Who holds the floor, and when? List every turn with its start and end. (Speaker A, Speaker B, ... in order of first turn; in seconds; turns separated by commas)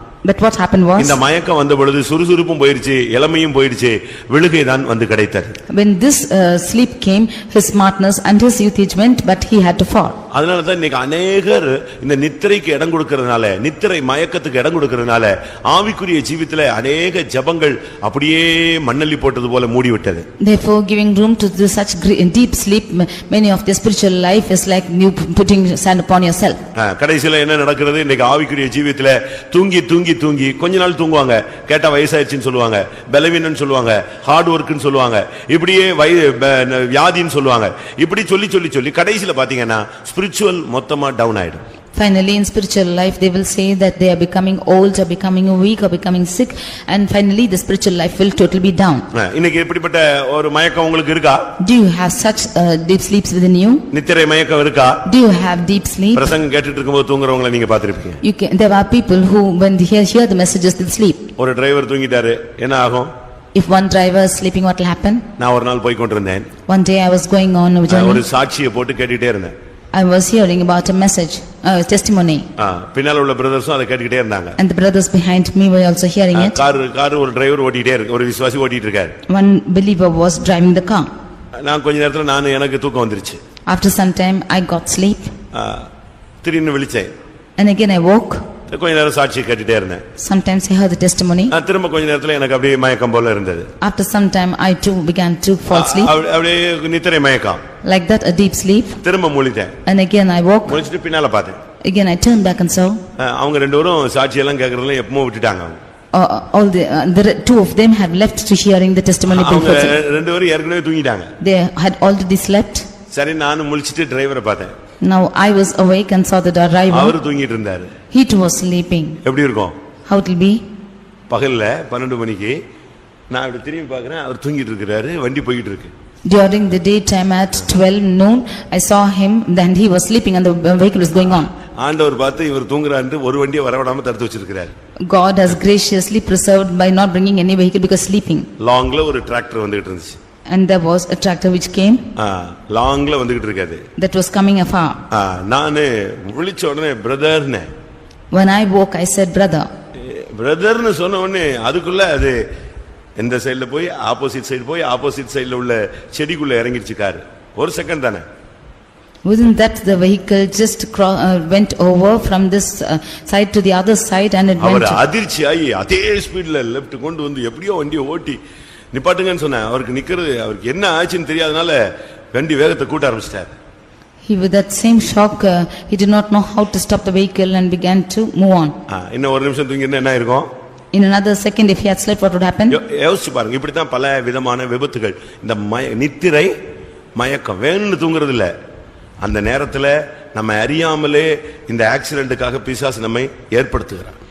Speaker A: 0.2-1.2, Speaker B: 1.0-5.6, Speaker A: 5.7-10.2, Speaker B: 10.3-20.3, Speaker A: 20.4-26.6, Speaker B: 26.8-41.6, Speaker A: 42.0-49.1, Speaker B: 49.1-51.5, Speaker A: 51.6-53.9, Speaker B: 53.9-55.0, Speaker A: 55.0-56.4, Speaker B: 56.1-58.2, Speaker A: 58.2-61.3, Speaker B: 61.4-63.1, Speaker A: 63.5-65.3, Speaker B: 65.4-66.5, Speaker A: 66.7-68.2, Speaker B: 67.9-69.5, Speaker A: 69.9-72.5, Speaker B: 72.6-74.6, Speaker A: 74.6-76.6, Speaker B: 76.3-79.2, Speaker A: 79.3-81.1, Speaker B: 81.6-83.4, Speaker A: 83.7-85.3, Speaker B: 85.5-85.9, Speaker B: 86.4-87.1, Speaker A: 87.6-88.5, Speaker B: 88.7-90.0, Speaker A: 90.2-91.5, Speaker B: 91.5-93.7, Speaker A: 93.8-96.1, Speaker B: 95.7-97.6, Speaker A: 97.8-99.0, Speaker B: 99.0-99.8, Speaker A: 99.9-100.8, Speaker B: 100.7-101.6, Speaker A: 101.8-103.0, Speaker B: 103.2-105.8, Speaker A: 106.1-110.0, Speaker B: 109.3-111.3, Speaker A: 111.4-112.9, Speaker B: 113.1-114.7, Speaker A: 115.0-117.2, Speaker B: 116.9-117.9, Speaker A: 118.1-119.2, Speaker B: 119.2-119.8, Speaker A: 120.1-120.6, Speaker B: 121.3-122.6, Speaker B: 123.3-125.9, Speaker A: 126.3-131.5, Speaker B: 131.8-134.7, Speaker A: 135.1-138.5, Speaker B: 138.6-140.2, Speaker A: 140.5-142.1, Speaker B: 142.2-143.8, Speaker A: 144.0-145.0, Speaker B: 145.1-147.7, Speaker A: 148.3-149.7, Speaker B: 149.9-152.4, Speaker B: 153.2-158.2, Speaker A: 159.2-165.0, Speaker B: 164.6-168.4, Speaker B: 168.9-173.5, Speaker A: 174.2-178.8, Speaker B: 178.9-180.5, Speaker A: 180.9-182.8, Speaker B: 182.7-186.5, Speaker B: 187.2-188.5, Speaker B: 189.2-194.2